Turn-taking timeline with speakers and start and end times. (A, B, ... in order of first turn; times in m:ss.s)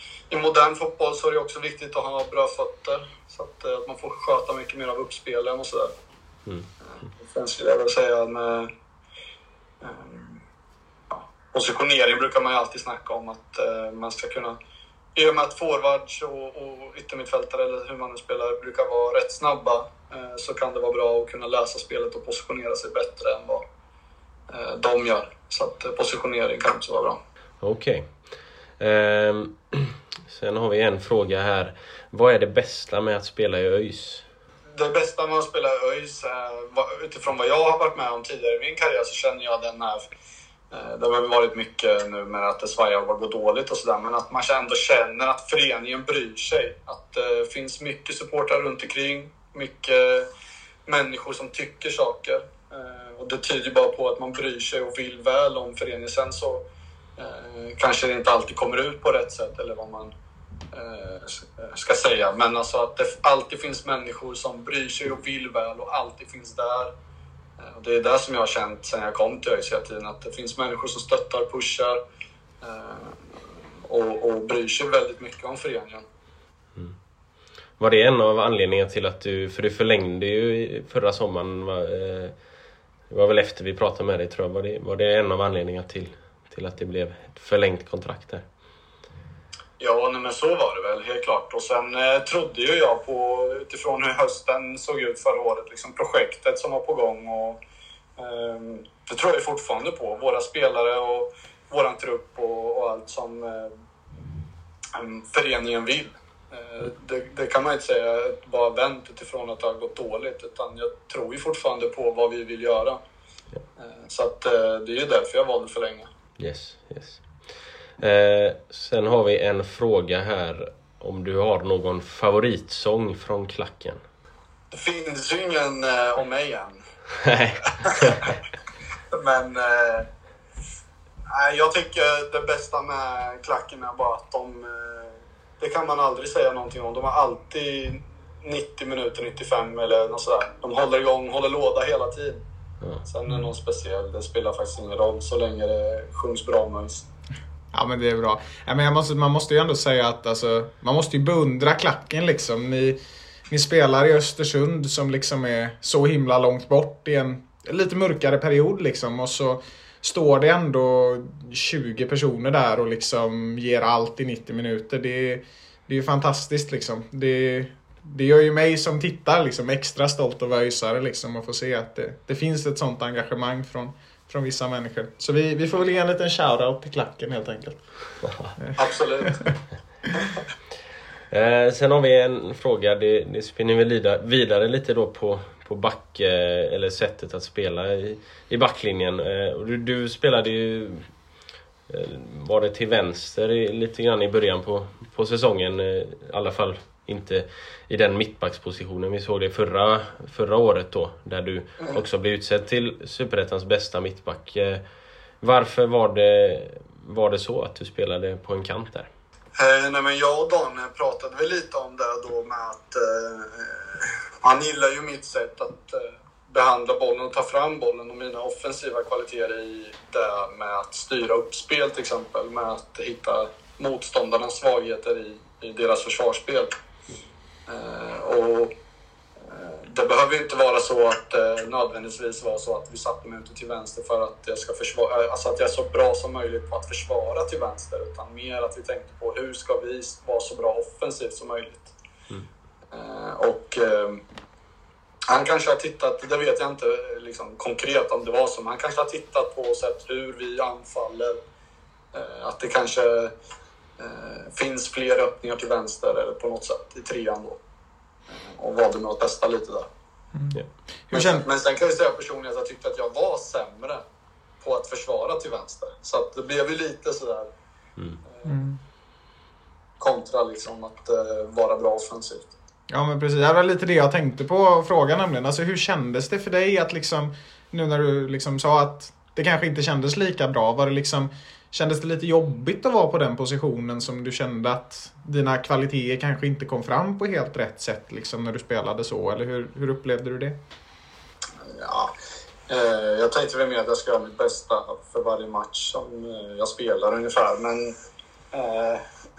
0:00.3-0:05.9 A
0:06.9-0:08.7 A
0:09.8-0:10.4 A
0:11.1-0:14.6 A
0:15.1-0:23.6 A
0:24.5-0:27.2 A
0:27.6-0:28.1 B
0:28.8-0:34.2 B
0:34.7-0:40.0 A
0:40.7-0:50.3 A
0:50.9-0:56.6 A
0:57.2-1:00.1 A
1:00.7-1:06.9 A
1:07.6-1:12.0 A
1:12.6-1:16.0 A
1:17.8-1:22.3 B
1:23.1-1:28.4 B
1:29.8-1:37.6 A
1:38.2-1:43.7 A
1:44.9-1:53.0 A
1:53.8-1:56.1 A
1:56.4-1:57.2 B
1:58.0-2:04.0 B
2:04.7-2:06.8 A
2:07.2-2:08.3 B
2:07.8-2:08.3 A
2:09.1-2:10.1 A
2:11.3-2:22.4 A
2:23.0-2:27.0 A
2:27.7-2:57.8 C
2:58.3-2:58.5 B
2:58.6-2:59.5 C
2:58.8-2:59.4 A
3:01.3-3:11.1 B
3:11.9-3:24.8 B
3:25.4-3:29.1 B
3:29.6-3:46.7 A
3:47.7-3:48.7 A
3:49.4-4:01.9 A
4:02.9-4:04.2 A
4:05.3-4:11.4 A
4:12.1-4:13.3 A
4:14.0-4:17.6 A
4:18.3-4:19.9 A
4:20.3-4:21.4 C
4:21.1-4:24.0 A
4:24.6-4:27.5 A
4:28.3-4:28.6 A
4:28.4-4:28.8 C
4:30.0-4:32.5 A
4:32.9-4:50.6 C
4:51.6-4:52.1 A
4:52.7-4:57.9 A
4:58.5-4:59.0 A